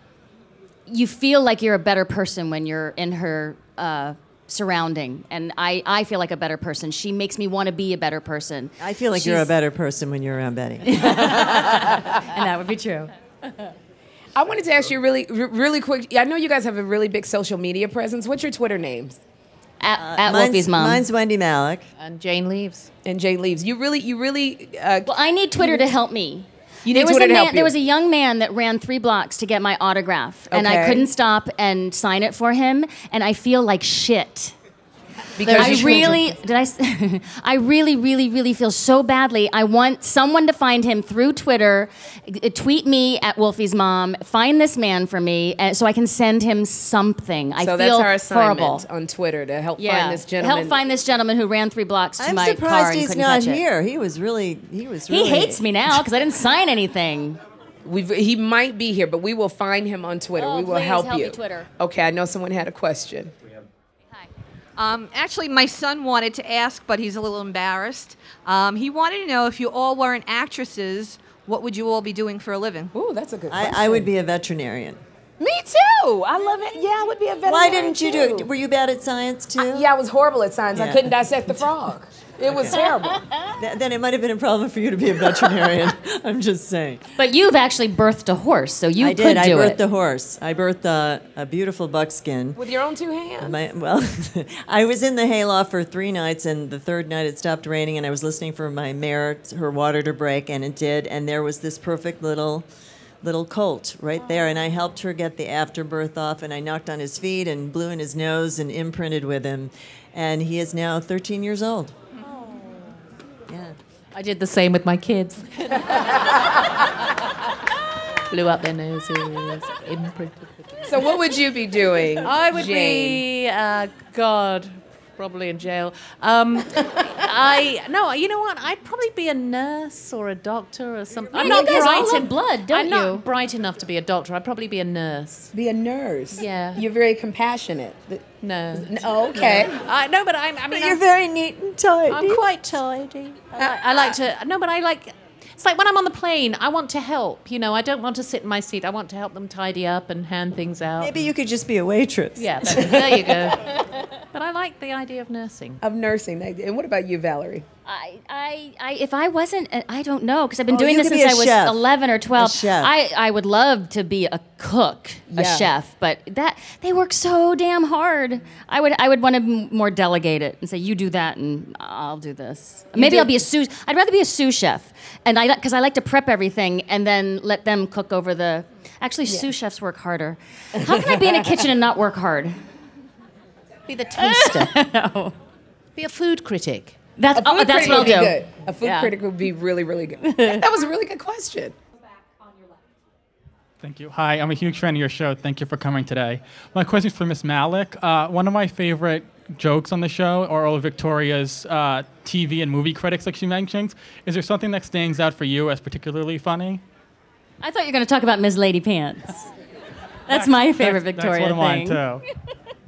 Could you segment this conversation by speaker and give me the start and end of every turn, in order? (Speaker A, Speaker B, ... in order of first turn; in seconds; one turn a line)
Speaker A: 0.9-9.5
Speaker B: 8.8-11.5
Speaker A: 10.8-13.1
Speaker C: 14.3-19.2
Speaker A: 19.8-21.0
Speaker B: 20.0-21.9
Speaker D: 22.0-22.9
Speaker C: 23.1-25.9
Speaker A: 25.1-34.5
Speaker C: 26.9-27.7
Speaker C: 30.5-31.1
Speaker C: 35.4-36.3
Speaker A: 35.4-48.9
Speaker D: 35.7-36.2
Speaker C: 47.6-50.7
Speaker A: 49.8-53.6
Speaker B: 52.2-55.6
Speaker A: 55.1-57.4
Speaker C: 57.9-63.3
Speaker A: 60.4-61.7
Speaker E: 64.8-72.9
Speaker C: 72.9-74.1
Speaker B: 73.5-75.0
Speaker C: 75.4-78.5
Speaker B: 77.5-79.9
Speaker C: 79.6-83.2
Speaker B: 80.7-81.7
Speaker B: 82.5-82.8
Speaker B: 83.6-87.0
Speaker A: 87.2-89.8
Speaker B: 89.0-92.6
Speaker C: 92.6-93.6
Speaker B: 93.4-102.7
Speaker B: 103.2-112.0
Speaker B: 113.5-113.8
Speaker D: 114.1-116.3
Speaker D: 118.3-121.1
Speaker C: 120.9-123.2
Speaker D: 122.2-135.5
Speaker C: 131.3-132.1
Speaker A: 131.3-133.2
Speaker C: 135.5-139.7
Speaker D: 136.3-136.8
Speaker D: 138.4-141.0
Speaker B: 140.7-142.4
Speaker D: 142.1-151.2
Speaker C: 143.6-144.1
Speaker B: 151.0-153.4
Speaker D: 152.4-153.8
Speaker D: 154.3-155.8
Speaker C: 155.8-157.7
Speaker A: 157.9-182.5
Speaker B: 160.7-161.8
Speaker B: 162.4-162.9
Speaker C: 165.3-165.7
Speaker C: 172.9-173.4
Speaker C: 180.8-181.6
Speaker D: 183.9-184.8
Speaker A: 184.2-185.3
Speaker D: 186.0-187.0
Speaker A: 187.2-189.2
Speaker C: 187.3-191.8
Speaker A: 190.2-190.7
Speaker F: 193.8-206.8
Speaker A: 207.6-209.5
Speaker A: 210.3-212.0
Speaker F: 210.3-212.2